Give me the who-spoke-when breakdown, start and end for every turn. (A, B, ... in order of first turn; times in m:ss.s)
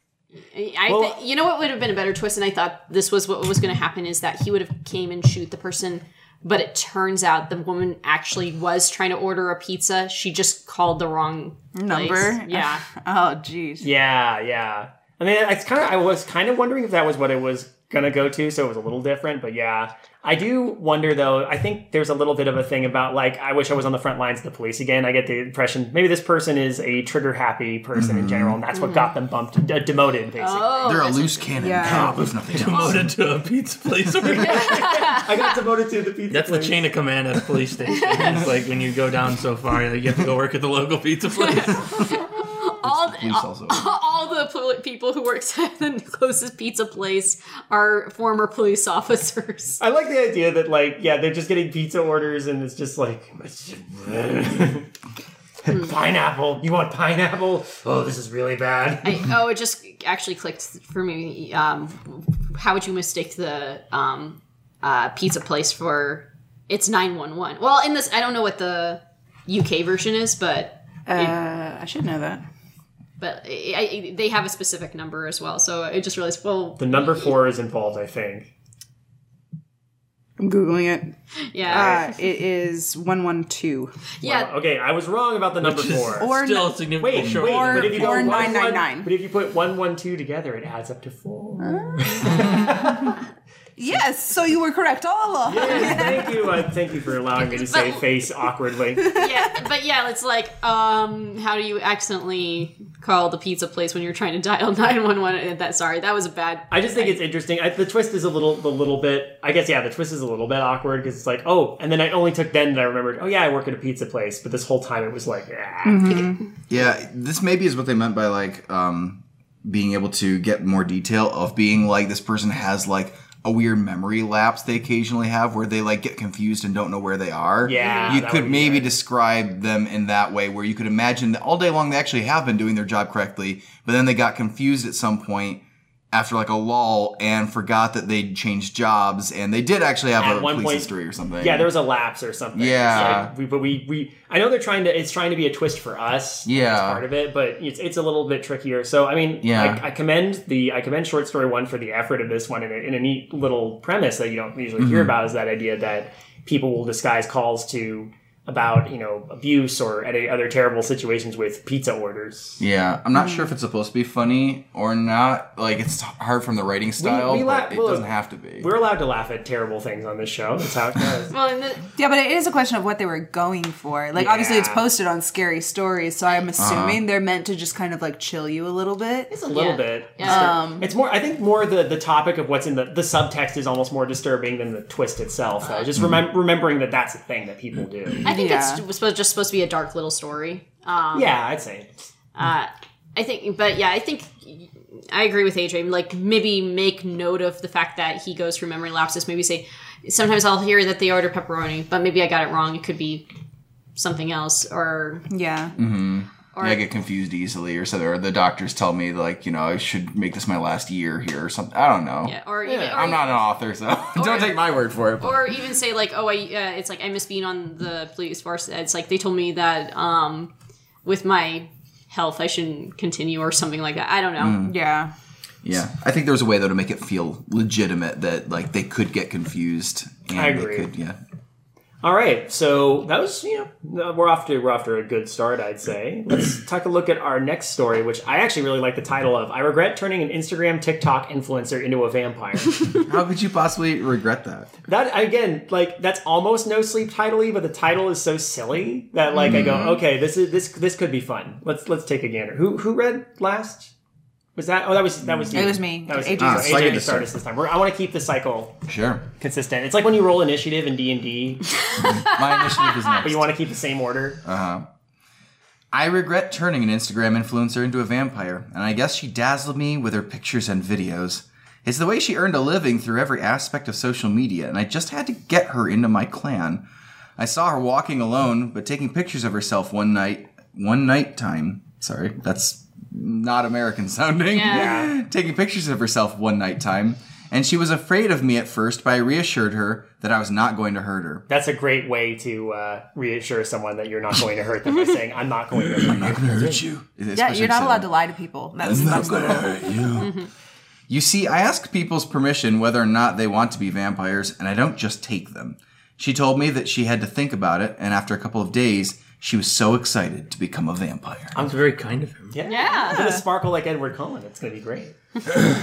0:00.5-0:12.8 A
0:00.9-0:01.2 B
0:11.8-0:13.9 C
0:13.8-0:31.0 B
0:28.0-0:28.6 D
0:28.7-0:29.1 A
0:30.4-0:31.5 A
0:30.8-0:33.2 D
0:31.6-0:32.2 C
0:31.8-0:34.9 E
0:34.2-0:36.9 B
0:34.4-0:35.5 A
0:36.3-0:41.8 E
0:37.9-0:38.4 A
0:41.4-0:49.8 A
0:41.8-0:43.9 D
0:49.8-0:54.9 B
0:55.6-0:59.3 B
0:59.0-1:11.4 A
1:11.1-1:12.4 C
1:13.2-1:17.3 A
1:16.8-1:18.5 B
1:20.4-1:23.9 C
1:21.4-1:22.2 A
1:24.2-1:24.5 A
1:24.2-1:26.3 B
1:25.6-1:28.4 E
1:26.2-1:29.1 C
1:27.0-1:33.2 B
1:31.6-1:33.2 C
1:33.8-1:36.4 C
1:35.5-1:39.2 B
1:37.4-1:38.0 A
1:39.1-1:47.2 A
1:46.7-1:56.2 B
1:55.8-1:56.4 C
1:56.7-2:21.7 D
2:07.6-2:08.9 B
2:07.8-2:08.1 A
2:20.2-2:42.6 B
2:22.6-2:23.3 D
2:26.5-2:27.0 D
2:29.4-2:29.8 D
2:34.8-2:35.1 D
2:42.6-2:48.7 D
2:43.1-2:43.5 C
2:47.0-2:51.3 B
2:51.3-2:51.9 A
2:52.0-2:59.3 C
2:54.1-2:54.8 B
2:56.6-2:57.0 D
2:59.3-3:08.2 B
2:59.5-3:00.6 A
3:00.2-3:00.9 C
3:08.2-3:08.8 C
3:08.2-3:11.4 A
3:11.1-3:11.9 B
3:12.4-3:23.3 A
3:24.0-3:25.3 A
3:25.3-3:25.7 C
3:25.8-3:32.4 D
3:26.5-3:26.8 A
3:32.2-3:33.4 A
3:32.7-3:33.2 B
3:32.9-3:35.6 D
3:34.2-3:40.5 A
3:41.0-3:44.7 A
3:44.4-3:44.8 D
3:44.6-3:45.1 C
3:45.6-3:51.2 D
3:50.3-3:50.9 B
3:52.0-4:02.9 B
4:03.0-4:04.7 D
4:04.9-4:13.9 B
4:09.4-4:10.0 D
4:09.5-4:09.9 C
4:14.6-4:18.8 B
4:15.4-4:15.8 D
4:15.5-4:17.0 C
4:16.4-4:17.3 D
4:18.9-4:19.3 D
4:19.4-4:21.8 B
4:21.9-4:23.2 A
4:22.0-4:23.5 D
4:23.2-4:24.4 B
4:24.4-4:24.9 D
4:25.9-4:36.8 D
4:37.4-4:51.4 D
4:44.5-4:45.1 A
4:44.7-4:45.1 B
4:51.5-4:56.8 B
4:54.9-4:55.2 A
4:56.0-4:58.1 D
4:57.4-5:00.1 C
4:58.8-5:00.3 D
5:00.2-5:00.5 A
5:01.1-5:11.6 D
5:11.5-5:12.6 E
5:12.5-5:15.2 B
5:12.7-5:13.4 A
5:13.1-5:13.4 C